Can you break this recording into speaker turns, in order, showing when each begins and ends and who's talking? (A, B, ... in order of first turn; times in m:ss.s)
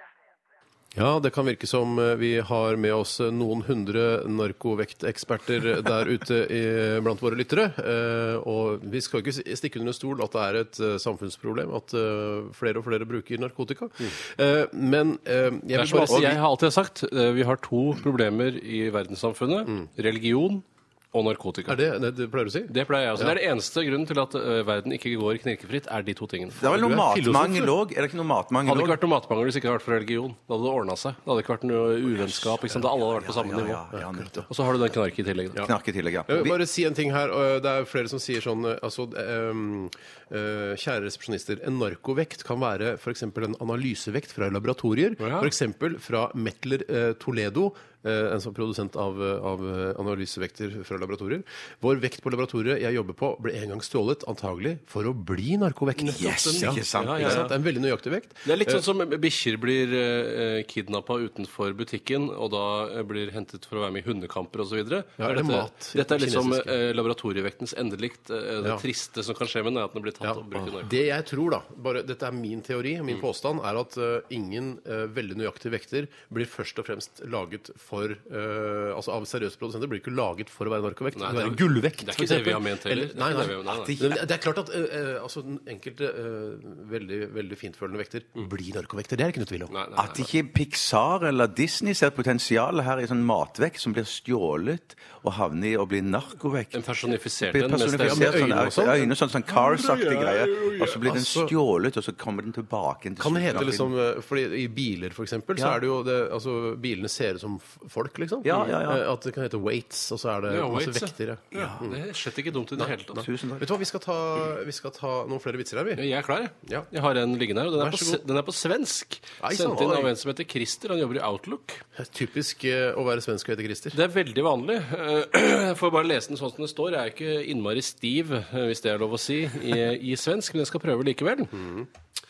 0:01.0-0:16.4 A
0:15.7-0:21.8 B
0:21.7-0:23.4 A
0:22.7-0:26.7 B
0:26.6-0:29.0 C
0:26.6-0:27.7 A
0:28.6-0:33.8 B
0:32.8-0:34.5 C
0:34.0-0:34.4 A
0:34.5-0:35.7 B
0:35.6-0:36.6 C
0:36.3-0:58.8 A
0:45.2-0:45.5 B
0:56.0-0:57.6 B
0:56.1-0:57.5 C
0:58.4-1:10.9 B
1:05.2-1:06.7 A
1:10.2-1:29.7 A
1:21.2-1:24.0 B
1:23.7-1:24.2 C
1:29.7-1:30.2 B
1:30.0-1:36.8 C
1:36.7-1:39.0 B
1:37.4-1:43.9 C
1:38.0-1:39.1 A
1:39.5-1:41.0 B
1:41.1-1:41.5 A
1:43.2-1:52.0 A
1:48.4-1:49.0 C
1:50.5-1:53.3 B
1:52.8-1:56.0 A
1:53.2-1:53.7 C
1:56.0-2:01.8 B
1:57.8-1:58.2 A
1:59.4-2:00.1 A
2:02.0-2:04.0 A
2:03.9-2:11.6 B
2:11.6-2:11.9 A